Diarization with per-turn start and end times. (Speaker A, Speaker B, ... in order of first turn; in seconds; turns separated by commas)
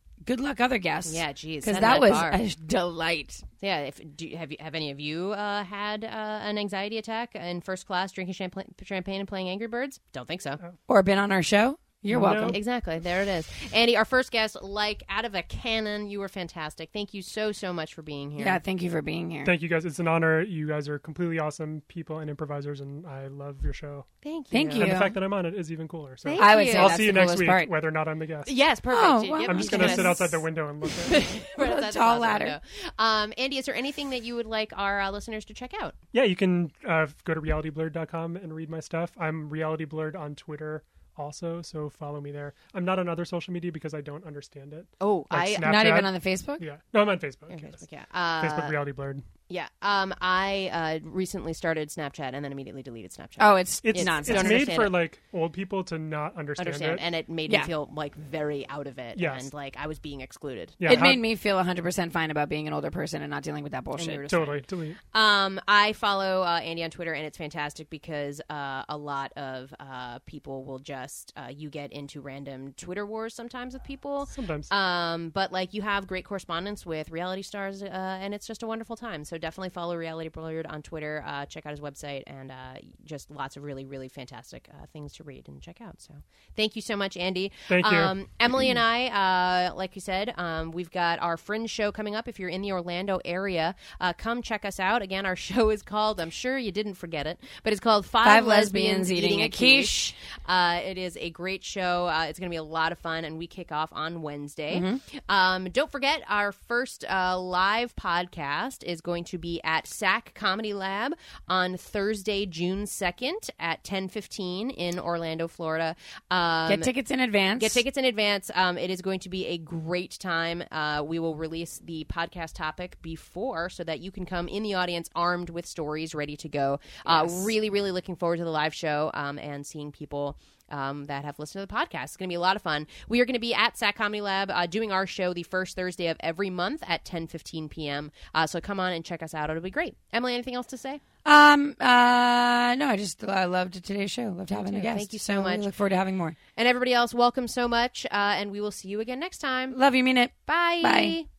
Speaker A: 0.2-3.4, Speaker B: 1.1-2.4, Speaker B: 3.6-10.6, Speaker A: 10.9-12.6, Speaker C: 12.1-12.6, Speaker B: 12.5-18.6, Speaker A: 18.4-19.5, Speaker C: 19.4-24.1, Speaker B: 24.2-24.9, Speaker A: 24.5-25.2, Speaker C: 24.8-28.5, Speaker B: 26.2-27.2, Speaker A: 26.4-27.7, Speaker B: 28.4-30.4, Speaker A: 28.9-30.2, Speaker C: 29.4-31.1, Speaker B: 31.0-36.0, Speaker A: 31.5-32.6, Speaker C: 36.1-47.8, Speaker B: 45.0-45.9, Speaker A: 45.6-46.6, Speaker B: 47.5-48.8, Speaker C: 48.4-49.2, Speaker B: 49.5-55.0, Speaker A: 53.4-54.7, Speaker C: 53.8-57.0, Speaker B: 56.6-61.0, Speaker C: 59.1-59.5, Speaker C: 60.8-61.2, Speaker A: 60.9-64.2, Speaker B: 63.9-116.9, Speaker C: 64.3-65.0, Speaker C: 74.3-74.7, Speaker C: 87.7-88.1, Speaker A: 98.2-100.1, Speaker A: 104.7-105.0, Speaker A: 116.7-117.8, Speaker B: 117.6-141.0, Speaker A: 127.0-127.5, Speaker A: 141.2-146.4, Speaker B: 144.5-145.7, Speaker B: 146.5-149.8, Speaker A: 149.7-151.2, Speaker B: 150.5-151.3